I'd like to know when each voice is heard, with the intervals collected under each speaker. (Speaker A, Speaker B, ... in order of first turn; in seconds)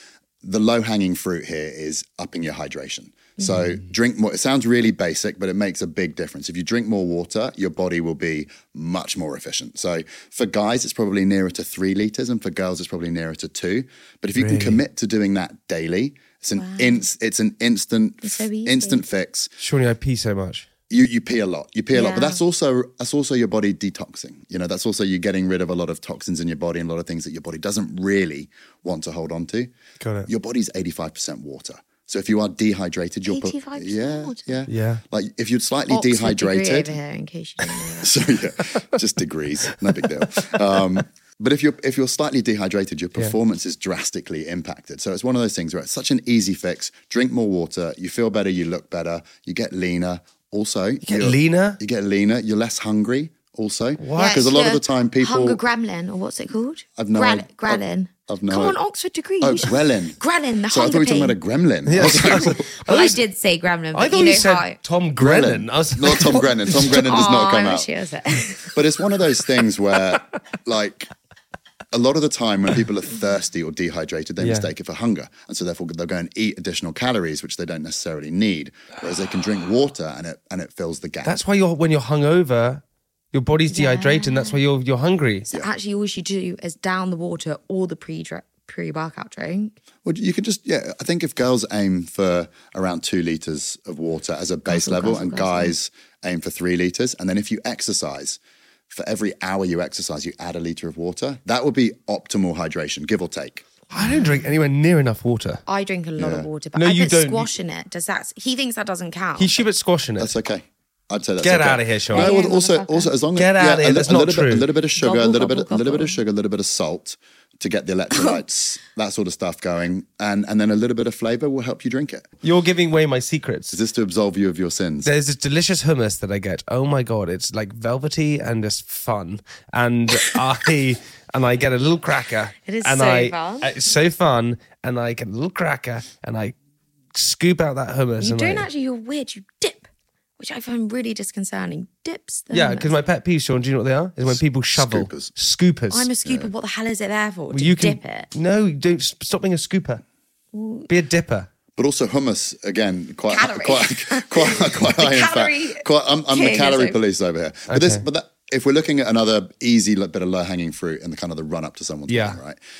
Speaker A: 0.4-19.5, 20.9-29.7, 30.2-37.0, 38.0-55.6, 57.0-58.8, 59.4-60.2, 60.7-62.7, 65.2-67.9, 68.7-71.1, 71.9-81.3, 90.0-98.4, 98.9-103.7, 106.2-106.5, 110.2-122.3, 123.7-125.1, 144.2-145.3, 151.8-162.6
Speaker B: 14.3-14.8, 19.6-20.7, 30.0-30.3, 34.7-35.0, 51.0-51.8, 54.0-54.4, 61.9-63.2, 63.9-66.8, 74.4-74.7, 81.2-85.5, 103.9-105.6, 106.8-107.5, 109.4-110.3, 111.4-112.3, 113.3-114.7, 122.4-123.8, 125.0-136.5, 137.1-138.7, 142.5-146.1, 147.5-150.0, 150.9-151.5, 157.7-158.0, 162.1-162.4
Speaker C: 16.5-17.1, 18.2-19.0, 21.9-22.4, 33.2-34.6, 35.9-38.1, 54.1-61.4, 62.0-64.8, 66.7-68.7, 83.7-84.6, 85.5-89.8, 94.7-95.7, 103.9-104.4, 105.7-109.6, 112.1-113.1, 115.0-116.2, 118.1-118.4, 132.7-133.7, 138.2-139.9, 140.4-142.9, 145.9-148.3, 150.5-150.9, 153.3-157.0